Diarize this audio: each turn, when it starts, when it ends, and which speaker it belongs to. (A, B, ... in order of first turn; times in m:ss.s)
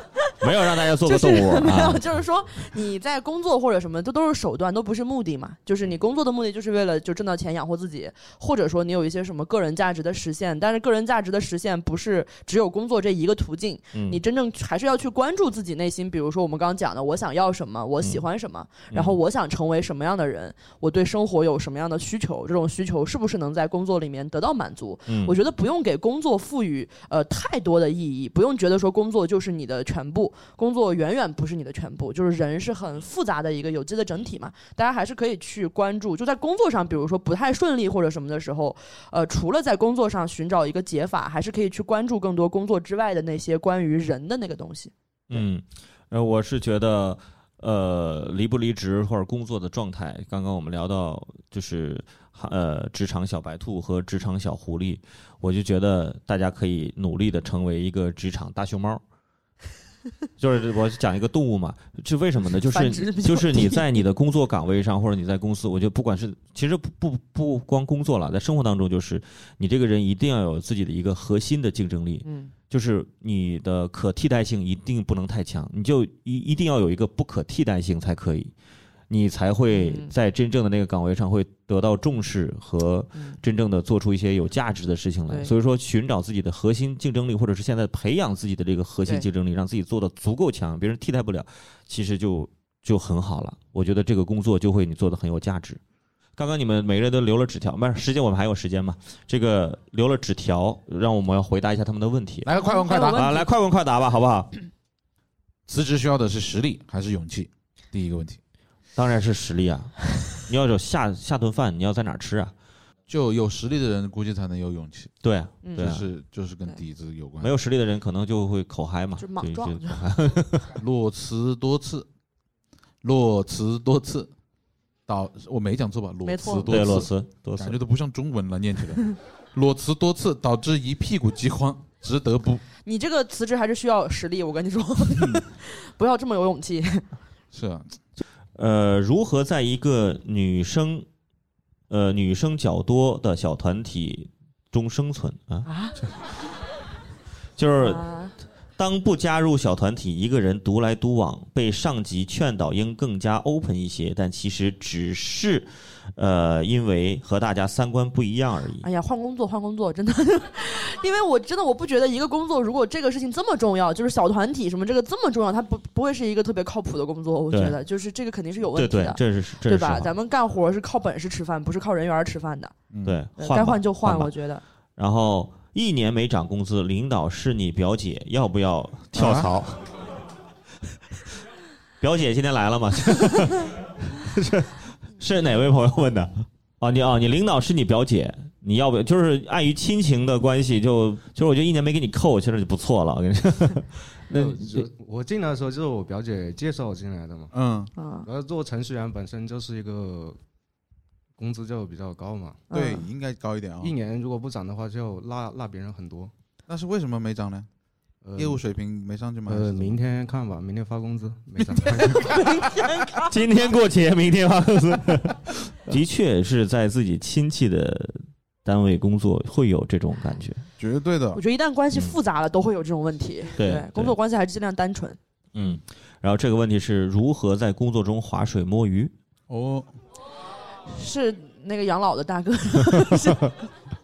0:00.2-0:44.9 A
0:00.4-0:02.0 B
0:13.9-0:14.2 B
0:18.9-0:19.2 B
0:25.1-0:25.3 B
0:45.3-0:59.0 B
1:00.4-1:18.5 B
1:02.7-1:03.8 A
1:12.2-1:12.5 A
1:19.1-1:35.8 B
1:19.7-1:20.1 A
1:36.4-1:42.5 B
1:42.4-1:43.2 C
1:42.5-1:43.5 A
1:43.1-1:44.6 B
1:45.7-1:48.4 C
1:49.0-1:52.5 B
1:53.1-1:55.1 C
1:55.2-1:56.0 B
1:55.6-1:55.9 A
1:55.8-1:57.5 C
1:57.4-2:00.7 B
1:59.2-2:00.1 A
2:00.7-2:02.1 C
2:03.0-2:04.3 C
2:05.1-2:12.6 C
2:06.2-2:07.0 A
2:06.6-2:07.8 B
2:12.8-2:17.1 A
2:17.5-2:17.9 C
2:18.6-2:21.0 B
2:21.9-2:26.1 B
2:25.6-2:25.9 A
2:27.6-2:28.0 B
2:27.8-2:28.3 A
2:28.8-2:38.8 B
2:38.8-2:52.7 A
2:47.5-2:47.8 B
2:48.7-2:50.1 B
2:52.9-2:53.2 C
2:53.0-2:54.3 B
2:53.4-2:54.6 A
2:55.0-2:59.9 B
2:59.1-2:59.5 C
3:02.0-3:14.8 B
3:14.3-3:17.5 D
3:17.5-3:17.9 C
3:18.0-3:18.3 A
3:18.2-3:20.4 D
3:21.4-3:22.6 D
3:22.7-3:23.1 A
3:22.7-3:23.9 C
3:23.8-3:26.3 D
3:26.7-3:27.7 C
3:28.2-3:28.6 D
3:28.4-3:30.0 C
3:29.5-3:32.4 D
3:31.6-3:32.1 C
3:32.1-3:33.5 A
3:33.3-3:40.6 B
3:40.8-3:41.4 C
3:41.3-3:45.2 A
3:43.6-3:44.1 B
3:45.5-3:49.1 B
3:49.5-3:49.9 C
3:50.9-3:53.7 A